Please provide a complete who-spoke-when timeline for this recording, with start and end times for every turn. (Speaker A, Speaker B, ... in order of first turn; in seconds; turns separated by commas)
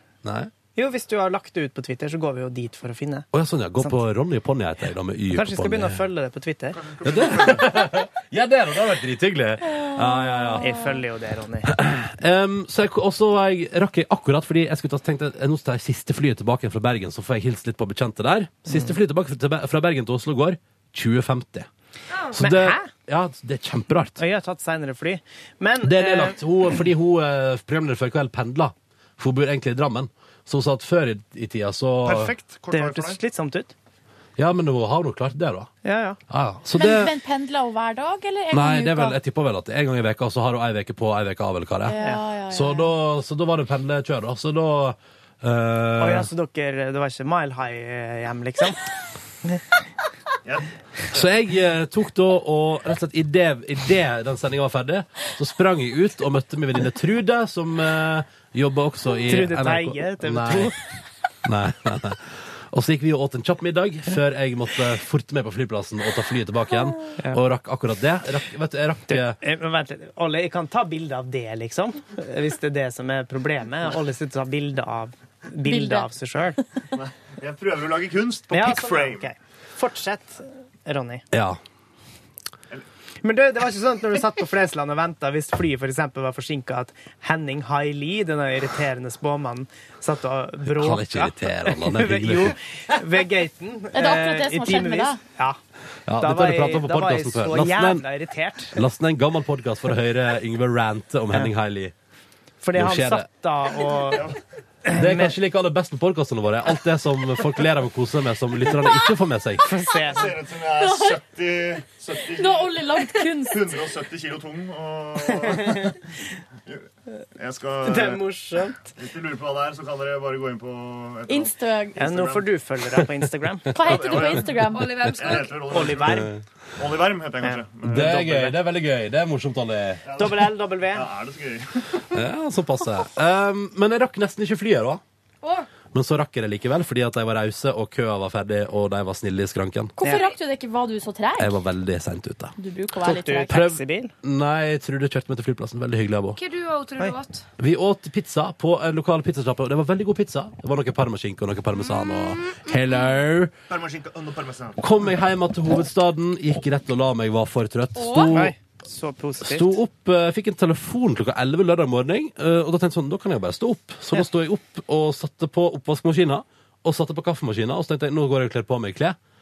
Speaker A: 0.2-0.5, Speaker B: 0.8-3.3, Speaker A: 3.3-6.0, Speaker B: 5.3-6.9, Speaker C: 6.8-7.7, Speaker A: 7.0-10.9, Speaker B: 10.6-11.8, Speaker A: 11.7-21.7, Speaker B: 18.7-18.9, Speaker D: 22.1-22.4, Speaker A: 22.3-24.2, Speaker B: 22.4-22.9, Speaker B: 24.2-26.4, Speaker A: 25.8-32.3, Speaker C: 32.0-33.2, Speaker B: 32.7-33.7, Speaker A: 34.4-35.7, Speaker B: 35.8-36.2, Speaker A: 36.3-37.1, Speaker E: 36.8-39.2, Speaker A: 38.5-42.0, Speaker E: 41.9-42.9, Speaker A: 42.5-46.3, Speaker B: 46.0-48.8, Speaker A: 51.1-60.7, Speaker B: 59.3-60.8, Speaker A: 61.4-69.4, Speaker B: 69.1-76.6, Speaker E: 75.7-76.1, Speaker C: 76.9-79.3, Speaker B: 78.5-81.2, Speaker A: 81.3-81.6, Speaker B: 83.2-95.6, Speaker A: 90.7-93.0, Speaker E: 93.9-95.2, Speaker A: 96.1-98.0, Speaker B: 96.2-98.8, Speaker A: 98.7-101.9, Speaker B: 102.6-105.4, Speaker A: 102.7-103.3, Speaker C: 104.1-104.4, Speaker A: 104.9-109.6, Speaker B: 109.6-110.4, Speaker C: 110.0-112.9, Speaker E: 110.7-111.2, Speaker E: 112.3-113.7, Speaker C: 113.5-116.0, Speaker B: 115.3-115.9, Speaker C: 116.7-118.3, Speaker B: 117.8-118.8, Speaker C: 119.0-122.5, Speaker E: 121.3-122.2, Speaker B: 122.0-123.8, Speaker E: 123.7-125.1, Speaker C: 123.8-124.6, Speaker D: 124.7-125.8, Speaker C: 125.1-128.1, Speaker B: 125.6-126.3, Speaker A: 126.0-126.4, Speaker B: 127.4-128.6, Speaker A: 127.9-130.0, Speaker C: 130.1-132.1, Speaker B: 130.2-131.1, Speaker A: 132.1-135.0, Speaker D: 135.4-135.7, Speaker A: 135.9-139.9, Speaker E: 140.0-141.6, Speaker A: 141.4-142.5, Speaker E: 142.6-143.6, Speaker B: 143.0-144.1, Speaker A: 143.5-146.4, Speaker D: 146.3-147.5, Speaker A: 147.6-153.5, Speaker D: 151.8-152.8, Speaker C: 153.7-154.8, Speaker A: 154.8-158.6, Speaker D: 158.0-158.4, Speaker B: 158.3-159.8, Speaker A: 159.4-169.2